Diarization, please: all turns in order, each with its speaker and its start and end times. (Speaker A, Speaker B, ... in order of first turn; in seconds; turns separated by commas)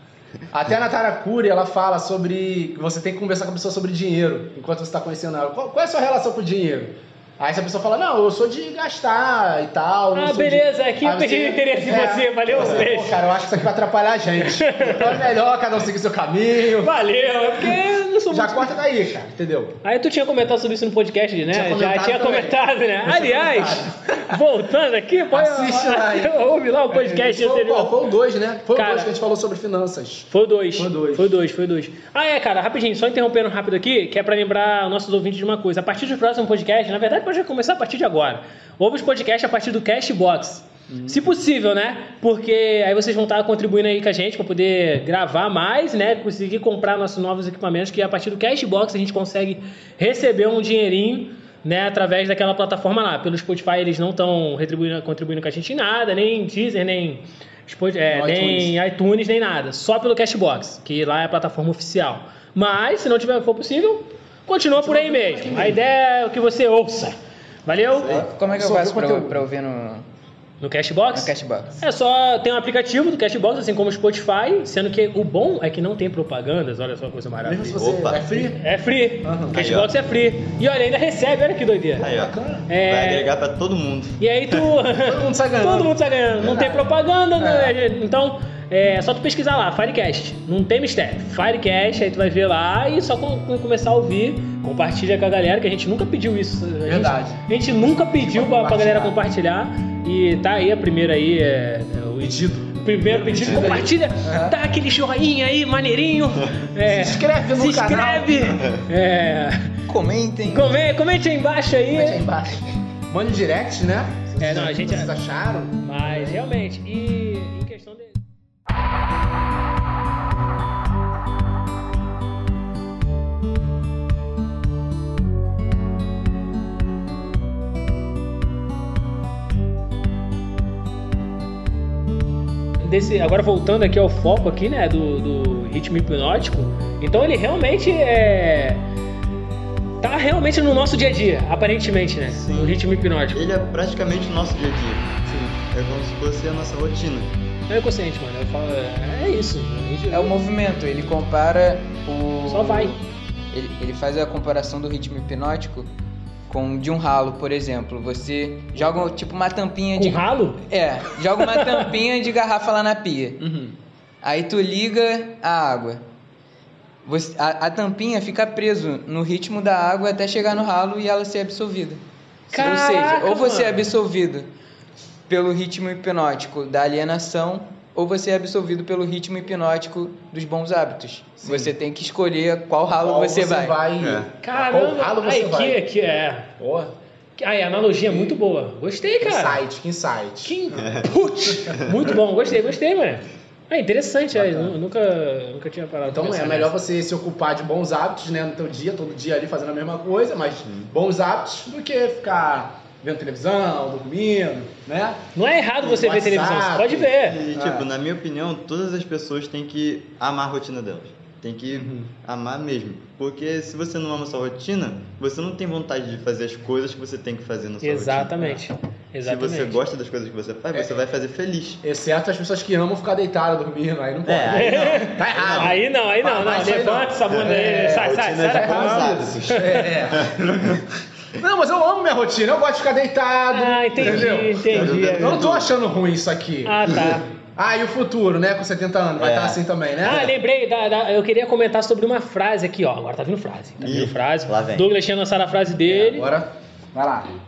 Speaker A: 0.5-16.9, Speaker B: 10.1-13.2, Speaker B: 14.4-15.2, Speaker B: 16.7-18.7, Speaker A: 18.3-19.8, Speaker B: 19.8-28.0, Speaker A: 21.5-24.4, Speaker A: 25.3-26.4, Speaker A: 26.9-31.3, Speaker B: 28.7-29.1, Speaker B: 30.3-68.2, Speaker A: 40.9-41.3, Speaker A: 58.1-58.8, Speaker A: 64.8-65.8, Speaker A: 68.0-69.5, Speaker C: 68.0-68.3, Speaker D: 68.1-70.1, Speaker B: 70.6-77.8, Speaker D: 71.1-71.8, Speaker A: 77.4-78.6, Speaker C: 77.8-78.3, Speaker B: 78.3-82.1, Speaker A: 79.2-79.6, Speaker C: 79.5-80.0, Speaker A: 82.0-82.7, Speaker C: 82.0-84.8, Speaker B: 82.7-83.3, Speaker B: 84.2-109.8, Speaker A: 85.0-87.8, Speaker A: 96.8-97.4, Speaker A: 98.1-99.2, Speaker A: 102.2-104.6, Speaker C: 103.3-103.8, Speaker A: 106.8-108.5, Speaker D: 109.9-110.8, Speaker B: 110.5-112.3, Speaker A: 111.9-116.4, Speaker B: 114.4-115.1, Speaker B: 115.8-118.2, Speaker B: 132.8-138.9, Speaker B: 140.0-143.5, Speaker C: 142.3-142.8, Speaker C: 143.3-145.2, Speaker A: 145.3-145.5, Speaker C: 145.7-147.3, Speaker B: 147.7-150.3, Speaker D: 150.1-153.0, Speaker B: 152.5-153.0, Speaker D: 153.5-155.9, Speaker D: 156.5-163.4, Speaker B: 160.0-160.6, Speaker B: 161.4-161.9, Speaker A: 163.4-163.8, Speaker D: 164.2-166.0, Speaker D: 167.1-174.5, Speaker B: 172.5-173.9, Speaker D: 175.3-183.8, Speaker A: 181.4-181.7, Speaker A: 182.9-185.8, Speaker C: 184.0-184.3, Speaker B: 184.4-186.5, Speaker A: 186.6-186.9, Speaker B: 187.4-189.6, Speaker A: 188.1-188.4, Speaker A: 189.2-190.8, Speaker B: 190.4-196.8, Speaker C: 190.7-192.0, Speaker A: 194.3-194.8, Speaker A: 196.1-205.2, Speaker C: 200.7-200.9, Speaker B: 205.3-207.4, Speaker A: 205.8-207.9, Speaker C: 207.2-218.6, Speaker A: 211.7-212.1, Speaker B: 217.8-219.8, Speaker C: 219.2-221.8, Speaker A: 221.8-230.9, Speaker C: 224.3-225.8, Speaker B: 224.5-229.9, Speaker C: 227.3-230.8, Speaker A: 231.4-240.3, Speaker B: 233.5-235.5, Speaker C: 234.0-235.7, Speaker B: 236.7-237.3, Speaker C: 239.2-239.6, Speaker B: 240.0-246.3, Speaker C: 243.8-244.9, Speaker A: 245.8-247.4